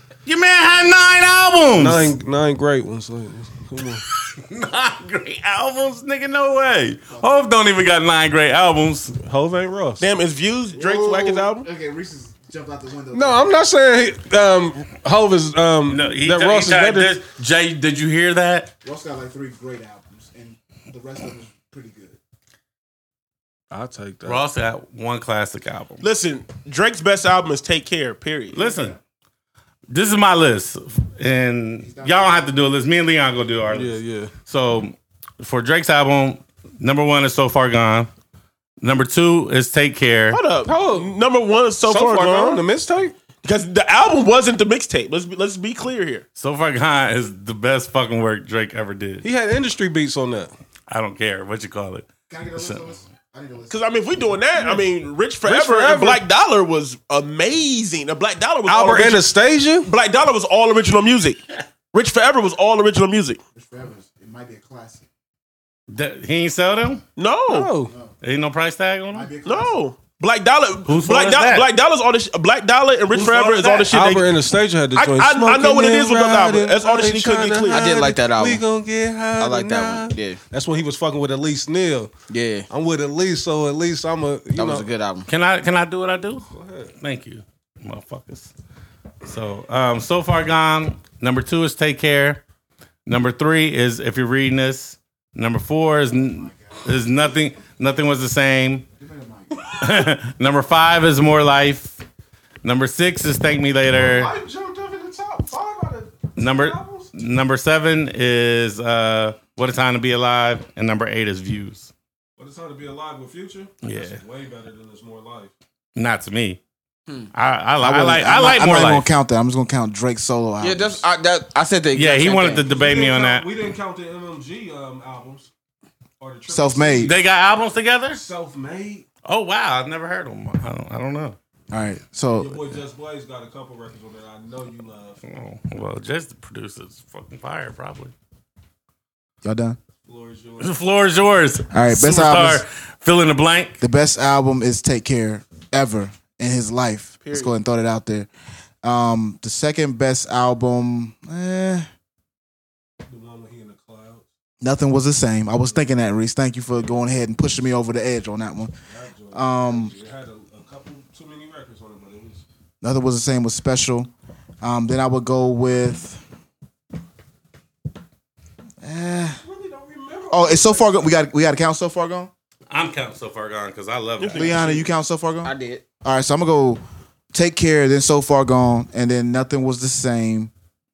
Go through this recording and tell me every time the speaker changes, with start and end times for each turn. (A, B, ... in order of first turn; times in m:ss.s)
0:00.2-0:02.1 A
0:01.8-0:04.0 B
0:04.1-0:09.2 A
0:07.1-0:07.5 C
0:09.2-0:10.0 B
0:10.0-0:11.7 D
0:10.7-0:13.5 C
0:13.1-0:17.2 B
0:15.9-0:18.7 A
0:18.8-0:22.2 C
0:23.7-0:24.4 B
0:24.2-0:26.0 A
0:26.0-0:28.6 D
0:28.5-0:29.0 A
0:28.5-0:29.0 C
0:29.9-0:38.1 A
0:31.8-0:32.4 C
0:33.7-0:34.3 B
0:38.8-0:40.4 A
0:40.3-0:42.6 D
0:40.7-0:41.2 B
0:41.9-0:43.1 B
0:43.4-0:46.2 D
0:46.4-0:49.3 A
0:49.2-0:50.5 B
0:50.9-0:52.9 A
0:52.3-0:53.8 C
0:53.7-0:59.3 D
0:55.4-0:56.2 B
0:58.7-0:59.9 B
0:59.8-1:03.4 D
1:03.6-1:05.1 C
1:05.9-1:07.0 A
1:07.2-1:07.7 D
1:07.5-1:07.9 B
1:07.9-1:08.1 C
1:08.2-1:09.3 A
1:09.1-1:09.7 C
1:09.4-1:14.3 D
1:10.9-1:11.7 A
1:13.1-1:22.1 B
1:14.9-1:17.9 D
1:17.7-1:18.6 E
1:19.4-1:20.4 E
1:22.3-1:22.7 E
1:22.7-1:24.9 B
1:24.6-1:25.3 E
1:25.3-1:26.5 A
1:26.5-1:26.9 B
1:27.0-1:28.5 A
1:29.2-1:32.4 A
1:33.1-1:38.9 A
1:36.1-1:36.9 C
1:39.0-1:40.0 C
1:39.7-1:42.0 A
1:42.6-1:44.3 A
1:43.9-1:47.1 B
1:46.4-1:51.9 A
1:52.4-1:55.5 B
1:53.8-1:54.2 A
1:56.0-1:56.6 A
1:57.3-1:59.1 A
1:57.8-2:01.0 C
2:00.6-2:02.7 E
2:01.9-2:03.5 A
2:02.6-2:05.5 B
2:06.2-2:07.2 B
2:06.5-2:07.1 C
2:07.0-2:08.2 A
2:08.1-2:09.1 B
2:09.3-2:11.4 A
2:11.7-2:12.6 C
2:12.4-2:15.2 B
2:15.2-2:18.1 A
2:19.4-2:19.8 C
2:20.0-2:20.8 B
2:20.6-2:23.8 A
2:21.7-2:22.6 C
2:23.8-2:28.3 C
2:27.2-2:27.5 D
2:28.8-2:31.9 C
2:33.1-2:34.3 B
2:34.6-2:38.7 C
2:38.9-2:42.4 B
2:39.3-2:39.9 C
2:42.8-2:44.1 C
2:44.6-2:46.2 C
2:48.8-2:49.4 C
2:49.4-2:51.2 B
2:50.3-2:52.3 C
2:52.7-2:54.8 A
2:54.2-2:54.8 D
2:54.3-2:56.8 C
2:55.4-2:55.9 E
2:57.3-3:00.5 C